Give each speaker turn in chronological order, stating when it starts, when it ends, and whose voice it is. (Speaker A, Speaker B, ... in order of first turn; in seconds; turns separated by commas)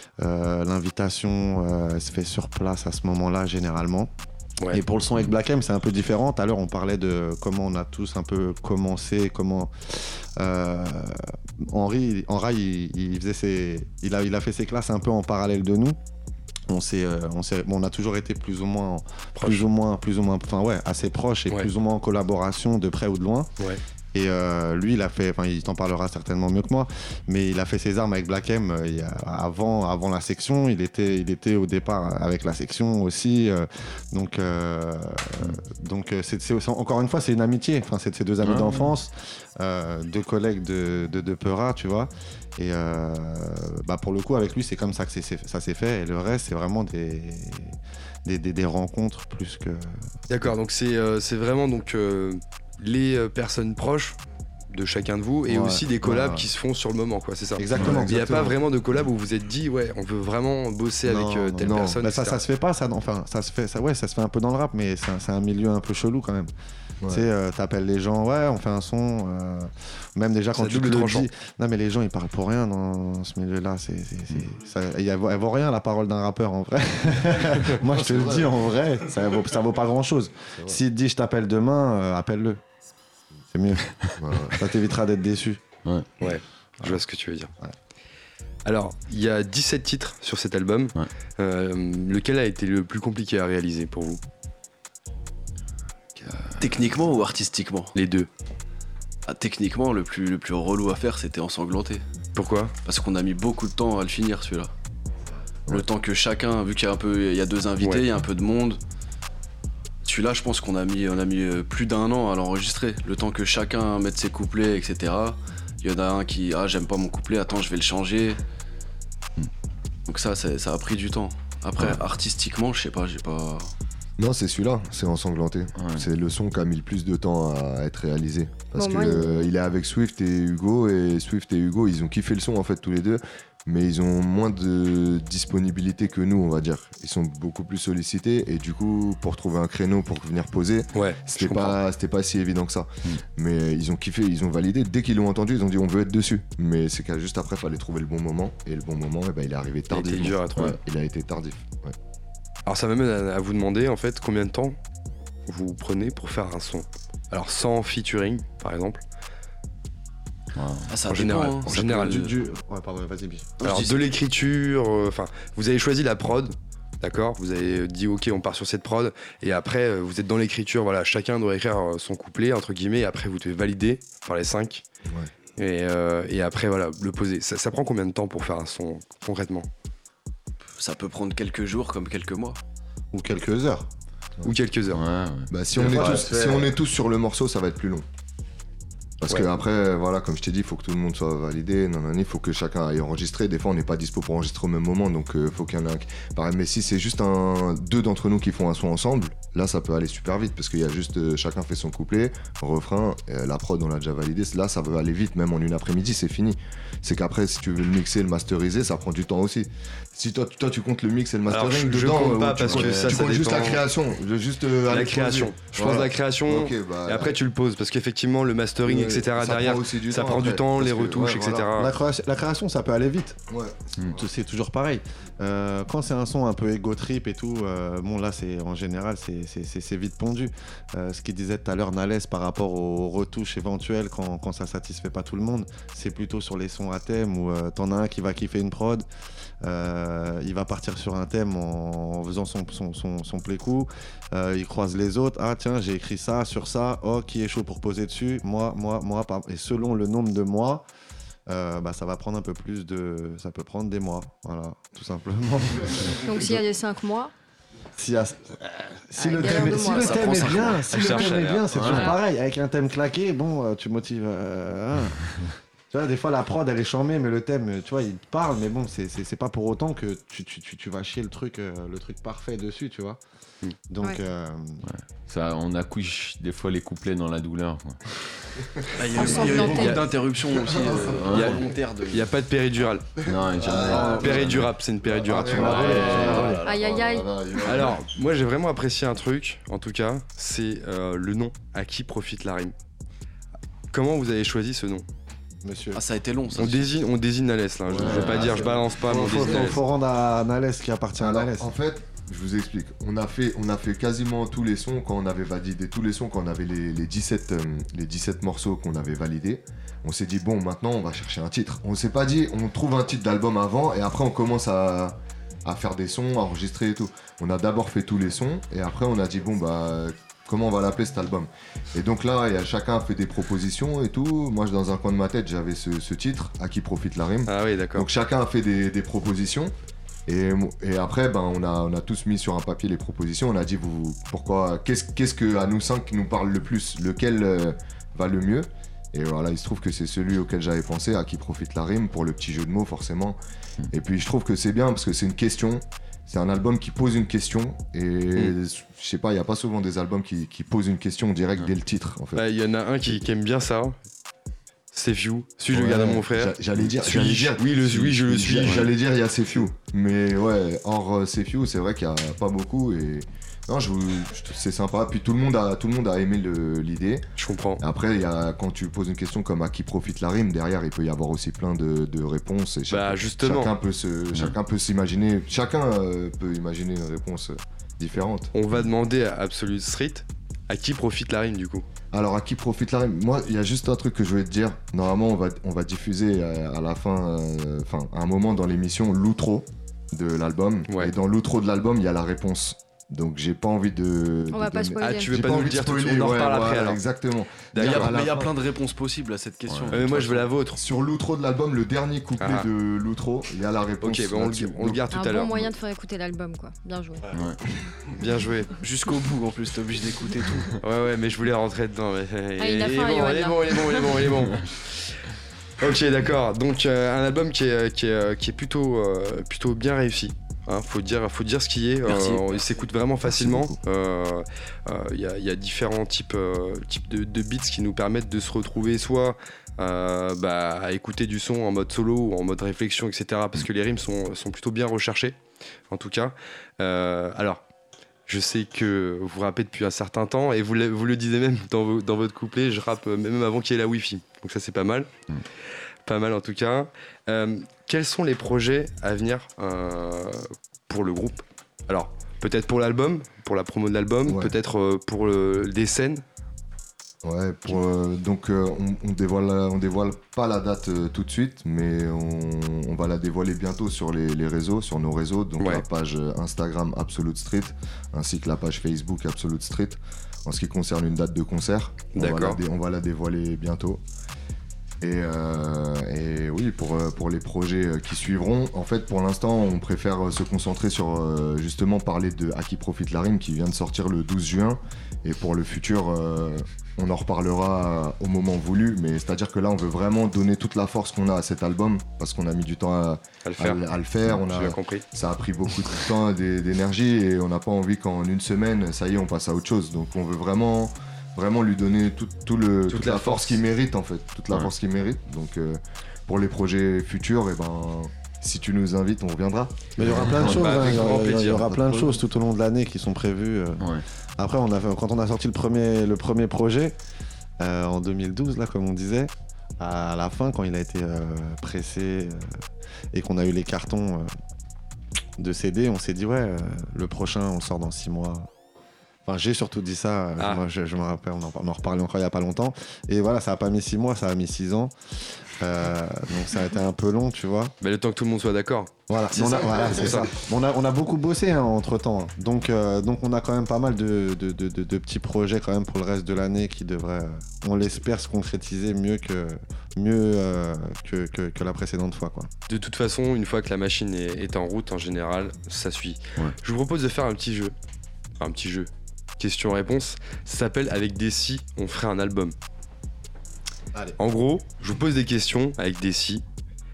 Speaker A: 0.2-4.1, Speaker A: 4.7-16.0, Speaker A: 16.7-23.5, Speaker B: 19.4-19.6, Speaker A: 24.1-50.1, Speaker C: 38.4-38.9, Speaker B: 50.3-54.2, Speaker B: 54.7-62.4, Speaker A: 55.5-56.5, Speaker A: 57.6-58.5, Speaker D: 57.8-58.1, Speaker A: 61.0-66.5, Speaker D: 61.6-62.0, Speaker A: 67.1-82.6, Speaker B: 70.6-71.3, Speaker D: 77.9-78.5, Speaker A: 83.5-83.9, Speaker D: 84.2-84.6, Speaker A: 84.5-85.6, Speaker B: 86.2-87.5, Speaker B: 88.6-94.2, Speaker C: 96.2-96.7, Speaker E: 96.6-97.9, Speaker B: 98.0-98.3, Speaker E: 99.3-102.0, Speaker B: 102.3-102.8, Speaker E: 102.9-104.7, Speaker E: 105.7-108.8, Speaker E: 110.0-118.4, Speaker E: 120.1-123.7, Speaker D: 124.2-152.0, Speaker C: 125.8-126.1, Speaker F: 128.8-129.5, Speaker B: 140.9-141.8, Speaker B: 149.9-150.8, Speaker B: 152.7-154.8, Speaker B: 155.5-159.0, Speaker C: 160.6-160.9, Speaker E: 160.9-162.3, Speaker B: 161.1-162.2, Speaker A: 162.0-163.6, Speaker E: 163.6-164.1, Speaker B: 163.6-174.8, Speaker B: 175.6-179.7, Speaker E: 180.8-182.6, Speaker A: 183.1-183.9, Speaker B: 184.4-185.0, Speaker C: 184.9-185.5, Speaker D: 185.5-188.0, Speaker A: 185.8-186.8, Speaker D: 189.2-217.4, Speaker B: 211.5-213.8, Speaker B: 214.9-221.9, Speaker D: 218.9-221.7, Speaker A: 221.8-223.4, Speaker D: 223.5-224.2, Speaker A: 224.1-239.1, Speaker A: 239.6-250.8, Speaker A: 251.5-256.6, Speaker F: 256.2-257.3, Speaker A: 258.0-265.3, Speaker F: 259.2-260.6, Speaker E: 259.4-260.8, Speaker B: 260.9-261.6, Speaker C: 261.7-262.1, Speaker A: 265.9-273.2, Speaker A: 273.9-274.8, Speaker C: 274.9-278.5, Speaker E: 279.0-282.3, Speaker D: 279.1-280.0, Speaker F: 279.1-280.0, Speaker D: 280.6-281.5, Speaker C: 281.2-281.6, Speaker B: 281.3-283.1, Speaker D: 283.2-288.0, Speaker C: 283.3-284.7, Speaker B: 283.9-286.5, Speaker C: 285.5-286.5, Speaker A: 285.6-286.6, Speaker F: 286.6-287.3, Speaker B: 287.6-292.7, Speaker B: 293.9-295.1, Speaker A: 295.6-296.0, Speaker E: 295.9-297.0, Speaker B: 296.6-299.8, Speaker D: 297.9-299.8, Speaker A: 298.0-301.8, Speaker C: 298.0-298.6, Speaker D: 301.2-329.7, Speaker B: 327.5-328.1, Speaker D: 330.3-343.4, Speaker D: 343.9-352.4, Speaker B: 352.4-354.0, Speaker B: 354.9-358.9, Speaker D: 355.7-367.2, Speaker B: 367.4-367.8, Speaker D: 367.8-378.5, Speaker B: 372.9-373.7, Speaker B: 378.5-381.9, Speaker D: 382.1-398.5, Speaker B: 390.9-391.1, Speaker F: 394.5-395.4, Speaker B: 395.0-397.0, Speaker B: 397.7-398.3, Speaker E: 397.8-400.6, Speaker C: 399.7-400.0, Speaker B: 399.9-400.8, Speaker D: 400.8-405.7, Speaker B: 402.4-402.7, Speaker B: 404.0-405.5, Speaker F: 405.1-407.3, Speaker B: 408.2-408.7, Speaker E: 408.8-410.8, Speaker B: 410.8-415.2, Speaker F: 412.6-413.8, Speaker B: 415.8-435.4, Speaker E: 422.1-422.6, Speaker D: 423.2-423.8, Speaker B: 435.9-437.6, Speaker B: 438.3-445.1, Speaker B: 446.1-456.2, Speaker D: 454.3-454.5, Speaker D: 457.2-474.0, Speaker B: 472.1-472.6, Speaker D: 475.0-512.2, Speaker B: 493.4-493.8, Speaker B: 494.4-495.0, Speaker B: 502.9-503.6, Speaker A: 510.0-517.0, Speaker C: 510.1-510.6, Speaker B: 510.5-511.7, Speaker A: 517.6-524.3, Speaker A: 525.4-528.5, Speaker A: 529.3-537.7, Speaker B: 537.8-540.3, Speaker A: 539.1-552.5, Speaker B: 552.7-557.8, Speaker B: 558.4-562.5, Speaker B: 564.2-566.4